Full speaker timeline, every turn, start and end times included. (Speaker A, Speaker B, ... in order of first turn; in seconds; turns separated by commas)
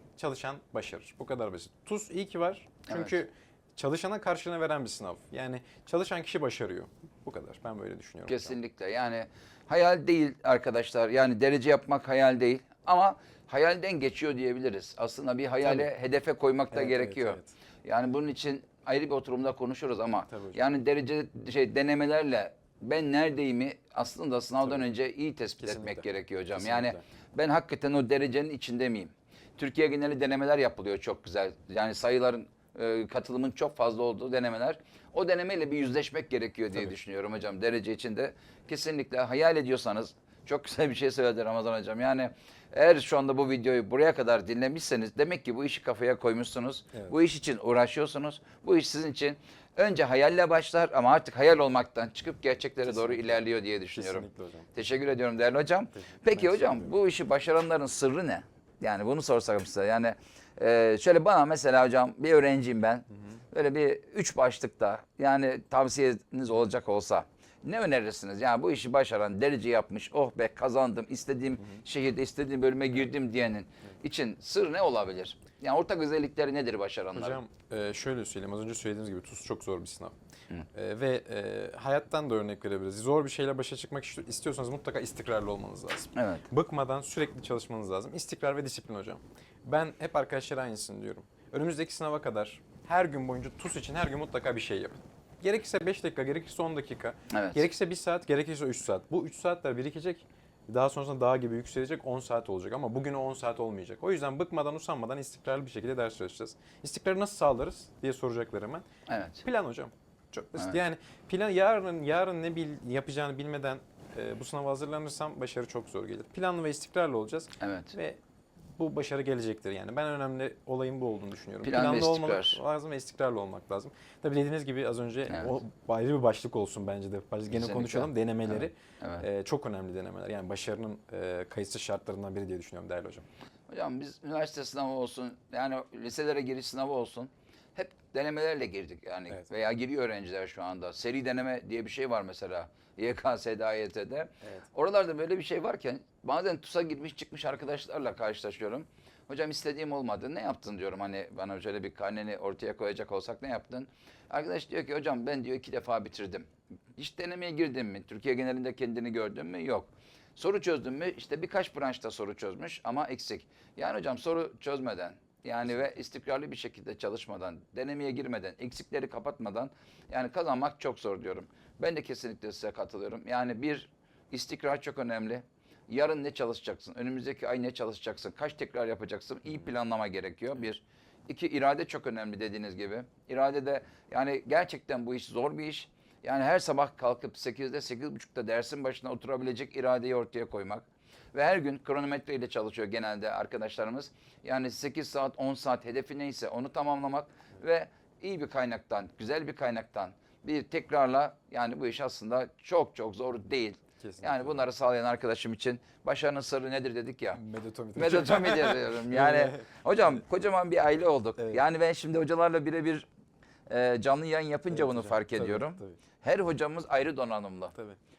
Speaker A: 0.2-8.6, Speaker B: 2.9-3.2, Speaker B: 8.3-77.4, Speaker A: 15.6-15.9, Speaker A: 16.7-17.5, Speaker A: 20.3-20.6, Speaker A: 25.6-27.0, Speaker A: 52.8-54.8, Speaker A: 55.9-56.9, Speaker A: 63.1-63.4, Speaker A: 77.2-80.2, Speaker A: 80.7-108.8, Speaker B: 86.2-86.5, Speaker B: 97.3-97.7, Speaker B: 109.1-109.4, Speaker A: 109.4-118.2, Speaker B: 117.6-118.0, Speaker A: 118.8-133.2, Speaker B: 121.6-122.6, Speaker B: 125.3-125.5, Speaker B: 127.5-129.2, Speaker B: 133.7-207.4, Speaker A: 204.0-204.7, Speaker A: 207.3-210.2, Speaker B: 207.9-213.1, Speaker A: 211.4-211.6, Speaker B: 213.7-217.7, Speaker A: 214.7-216.0